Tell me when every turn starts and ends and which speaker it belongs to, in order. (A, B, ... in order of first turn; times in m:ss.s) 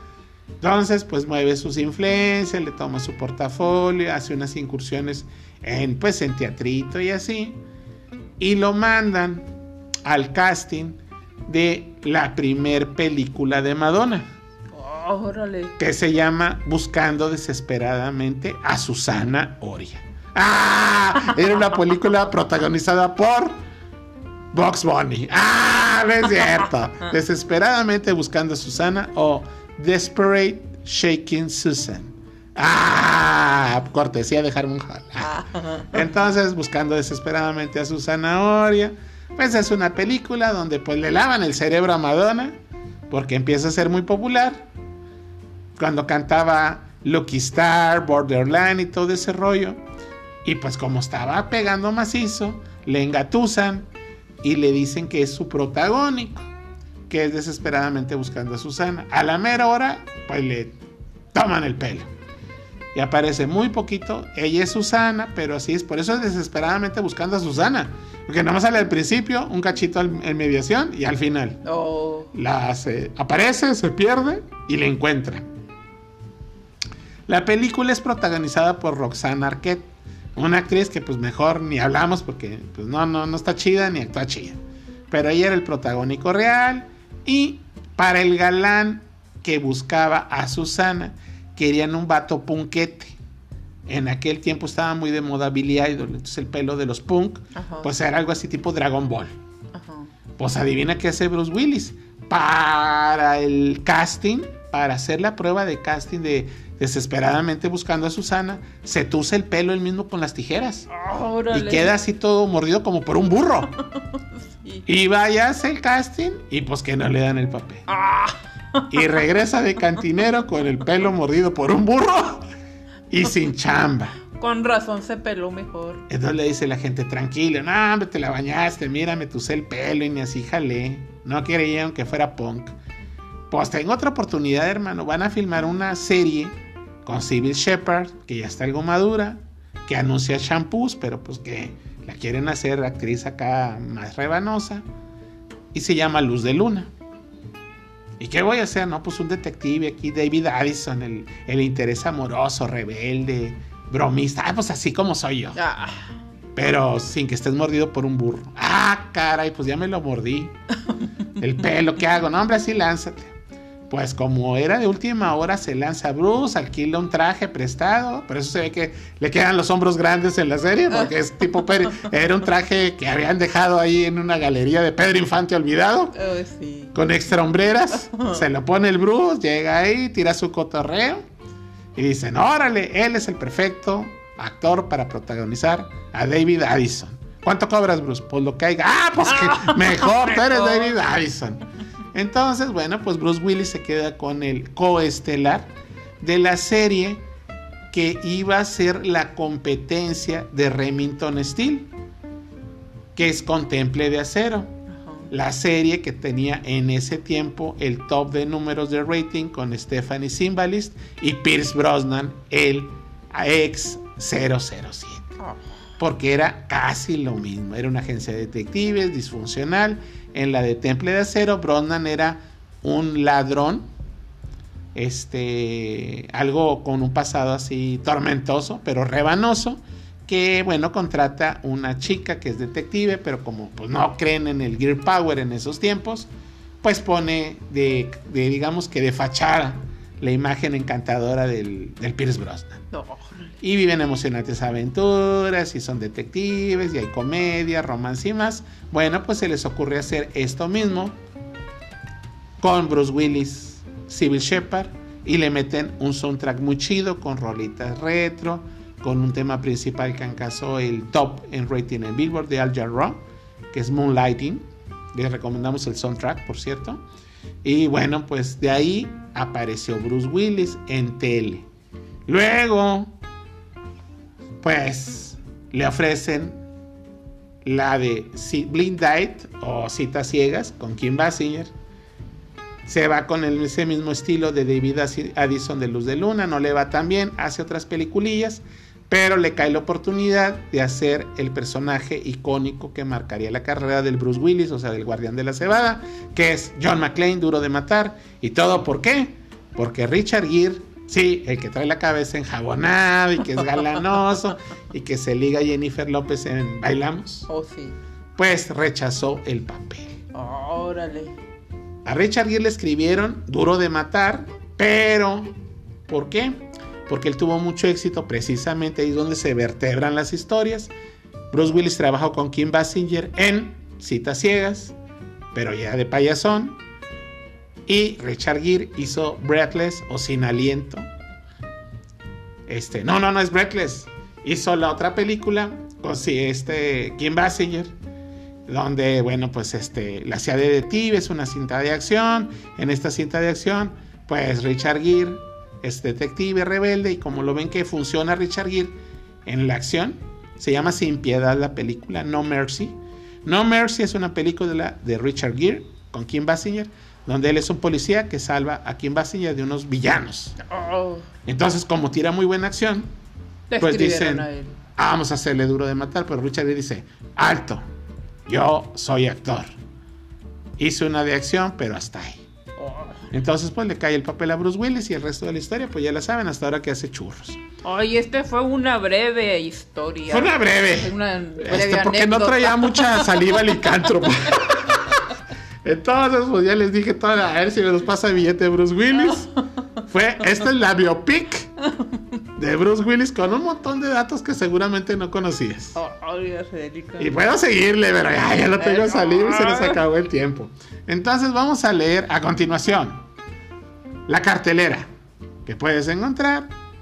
0:00.6-0:07.6 A
0:08.4-0:09.5 A
0:10.0-0:14.3 A
0:14.7-0:15.8 B
0:15.8-0:23.6 A
0:24.5-0:35.4 A
0:35.2-0:35.9 B
0:35.9-0:42.6 A
0:43.1-0:44.7 A
0:45.8-0:49.8 A
0:50.4-0:53.9 A
0:54.4-0:56.5 A
0:57.1-1:00.8 A
1:01.3-1:02.1 A
1:02.9-1:11.6 A
1:11.6-1:12.3 B
1:12.3-1:15.5 A
1:17.3-1:19.8 A
1:20.4-1:24.6 A
1:25.1-1:33.2 A
1:33.9-1:39.4 A
1:37.5-1:37.9 B
1:39.7-1:40.1 B
1:40.4-1:50.9 A
1:50.9-1:52.0 B
1:51.5-1:53.8 A
1:54.5-1:54.8 B
1:54.9-1:57.9 A
1:57.9-1:58.9 B
1:58.9-2:02.5 A
2:03.1-2:04.2 A
2:04.3-2:06.0 B
2:06.1-2:12.8 A
2:13.5-2:24.8 A
2:25.7-2:26.9 A
2:28.2-2:35.6 A
2:35.6-2:36.1 B
2:36.6-2:40.5 A
2:41.4-2:43.3 A
2:43.9-2:56.2 A
2:56.2-2:57.0 B
2:56.9-3:01.2 A
2:58.1-2:58.4 B
3:02.0-3:11.6 A
3:09.5-3:10.9 B
3:12.1-3:15.7 A
3:16.2-3:17.2 A
3:17.9-3:21.9 A
3:23.2-3:24.7 A
3:24.9-3:25.3 B
3:25.3-3:35.3 A
3:36.0-3:43.9 A
3:44.9-3:56.3 A
3:56.8-4:02.8 A
4:02.9-4:03.5 B
4:03.6-4:11.2 A
4:12.6-4:23.2 A
4:23.7-4:27.0 A
4:27.6-4:31.7 A
4:32.3-4:33.2 A
4:34.6-4:36.6 A
4:37.6-4:41.7 A
4:42.9-5:07.5 A
5:07.5-5:08.0 B
5:08.4-5:10.1 A
5:10.3-5:11.4 B
5:12.0-5:15.6 A
5:16.1-5:20.9 A
5:21.5-5:25.0 A
5:25.5-5:26.8 A
5:27.9-5:31.1 A
5:32.7-5:37.9 A
5:38.7-6:00.6 A
6:00.6-6:01.2 B
6:01.5-6:03.1 A
6:03.7-6:04.8 B
6:03.8-6:04.5 A
6:05.0-6:07.8 A
6:08.5-6:09.7 A
6:10.8-6:12.4 A
6:12.8-6:13.2 B
6:13.3-6:17.6 A
6:17.8-6:23.4 B
6:20.3-6:25.2 A
6:25.8-6:29.5 A
6:30.1-6:31.7 A
6:32.6-6:36.0 A
6:36.0-6:37.3 B
6:37.2-6:43.2 A
6:38.8-6:40.0 B
6:44.3-6:45.1 A
6:45.6-6:46.7 A